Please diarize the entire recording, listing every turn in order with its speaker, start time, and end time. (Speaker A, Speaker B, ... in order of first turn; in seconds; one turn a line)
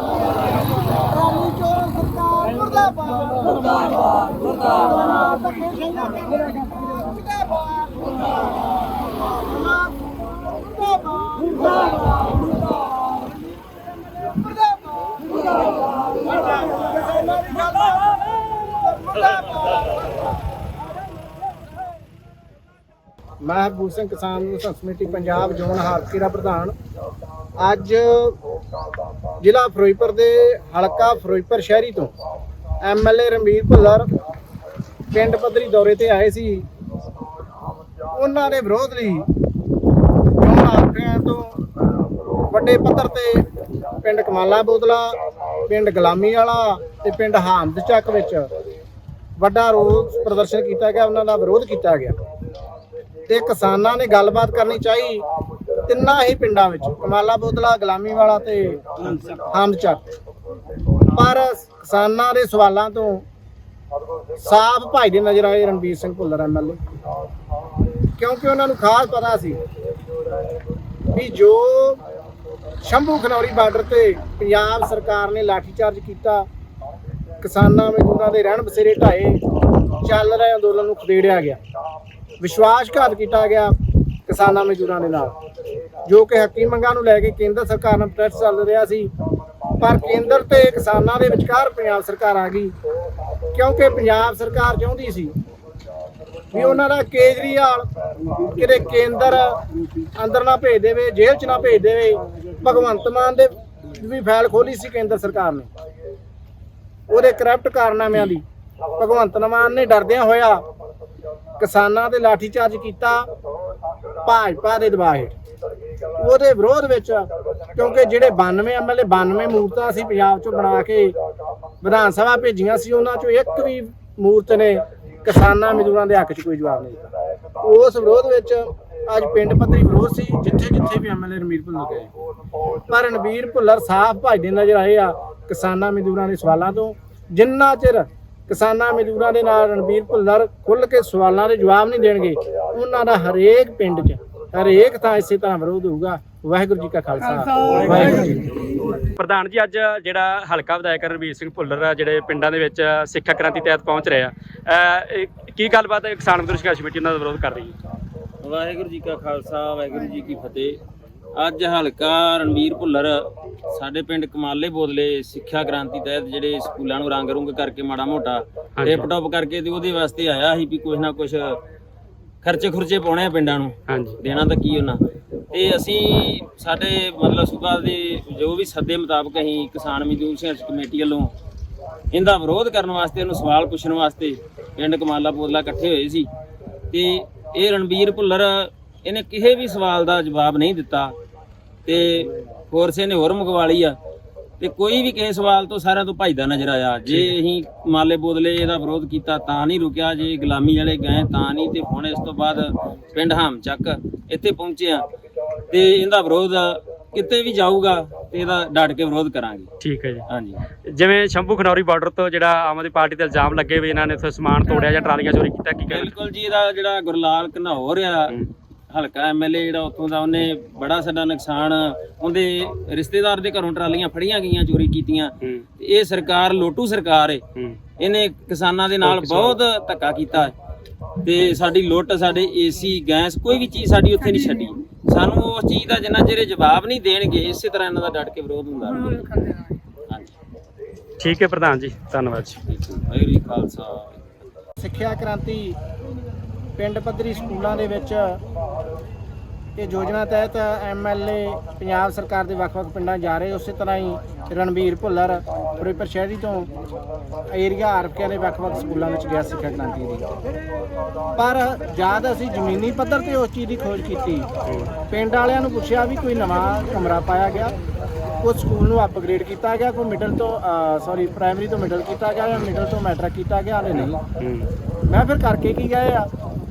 Speaker A: 0.8-8.6
Speaker A: 9.3-12.6
Speaker A: 14.1-15.5
Speaker A: 16.1-20.1
Speaker A: 23.4-26.7
Speaker A: 27.6-28.4
Speaker A: 29.4-32.1
Speaker A: 32.8-34.1
Speaker A: 35.1-36.6
Speaker A: 38.1-39.3
Speaker A: 40.4-41.6
Speaker A: 42.5-43.4
Speaker A: 44.0-45.1
Speaker A: 45.7-48.5
Speaker A: 49.4-52.1
Speaker A: 53.3-55.2
Speaker A: 55.9-60.0
Speaker A: 61.1-63.2
Speaker A: 64.4-66.8
Speaker A: 68.2-69.6
Speaker A: 71.1-72.0
Speaker A: 72.8-76.4
Speaker A: 77.4-79.4
Speaker A: 80.0-81.6
Speaker A: 82.4-83.7
Speaker A: 84.3-85.3
Speaker A: 86.1-89.1
Speaker A: 89.8-92.7
Speaker A: 93.5-95.3
Speaker A: 96.5-97.9
Speaker A: 98.5-99.6
Speaker A: 100.2-105.7
Speaker A: 107.1-108.4
Speaker A: 109.0-110.6
Speaker A: 111.6-113.3
Speaker A: 114.2-115.3
Speaker A: 116.2-121.2
Speaker A: 121.8-127.1
Speaker A: 127.6-132.1
Speaker A: 132.9-148.5
Speaker B: 149.2-157.7
Speaker C: 158.4-160.8
Speaker C: 161.3-171.6
Speaker B: 168.8-169.1
Speaker C: 172.4-181.3
Speaker B: 173.9-174.2
Speaker C: 182.1-186.3
Speaker C: 186.9-191.1
Speaker C: 191.8-194.0
Speaker C: 194.6-205.0
Speaker B: 197.1-197.3
Speaker C: 205.7-209.7
Speaker B: 209.8-210.2
Speaker C: 210.3-210.6
Speaker B: 210.9-216.1
Speaker C: 215.9-218.4
Speaker C: 218.9-227.4
Speaker C: 228.0-230.5
Speaker B: 229.0-229.6
Speaker C: 231.2-239.5
Speaker B: 241.2-242.6
Speaker C: 242.7-244.2
Speaker A: 244.8-245.8
Speaker A: 246.8-248.4
Speaker A: 249.8-256.7
Speaker A: 257.5-260.3
Speaker A: 261.4-264.5
Speaker B: 264.6-264.9
Speaker A: 265.1-267.7
Speaker A: 268.4-274.2
Speaker B: 273.9-274.7
Speaker A: 275.1-276.3